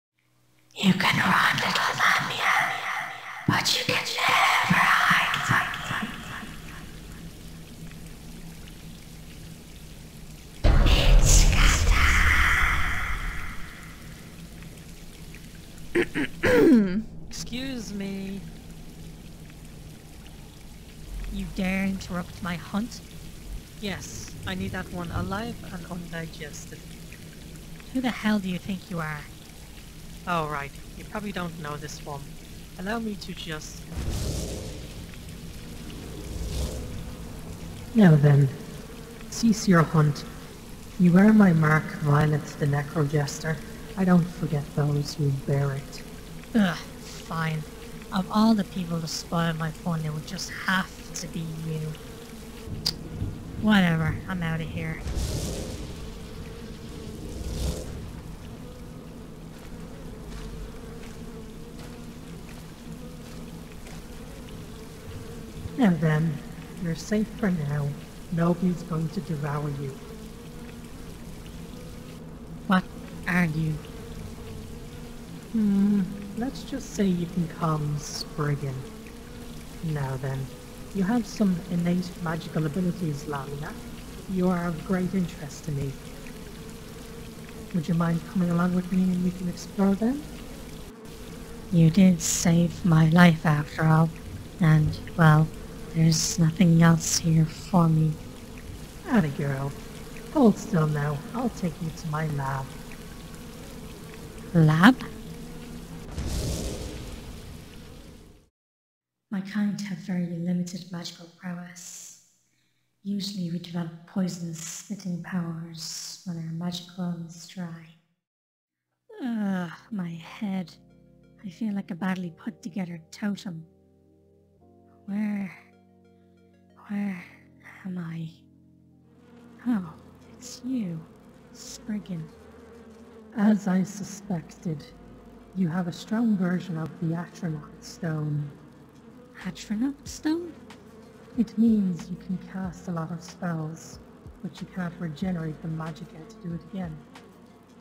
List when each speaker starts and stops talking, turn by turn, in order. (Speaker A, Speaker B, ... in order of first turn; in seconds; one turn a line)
Speaker A: 0.8-6.3
Speaker A: 11.1-12.4
Speaker B: 17.3-18.5
Speaker A: 21.3-23.0
Speaker B: 23.8-26.8
Speaker A: 27.9-29.3
Speaker B: 30.2-33.9
Speaker B: 37.9-38.6
Speaker B: 39.3-40.3
Speaker B: 41.0-46.7
Speaker A: 46.7-47.5
Speaker A: 48.1-51.2
Speaker B: 49.7-52.0
Speaker A: 53.6-55.0
Speaker B: 65.8-70.0
Speaker A: 72.7-73.8
Speaker B: 75.5-78.9
Speaker B: 79.8-86.0
Speaker B: 87.7-90.3
Speaker A: 91.7-98.2
Speaker B: 99.1-99.8
Speaker B: 100.3-102.7
Speaker A: 104.5-105.1
Speaker A: 109.3-112.2
Speaker A: 113.0-118.0
Speaker A: 119.1-120.8
Speaker A: 121.4-123.7
Speaker A: 125.0-125.6
Speaker A: 126.8-128.4
Speaker A: 129.6-132.3
Speaker B: 133.3-134.9
Speaker B: 135.5-138.6
Speaker A: 139.3-140.6
Speaker B: 141.3-147.0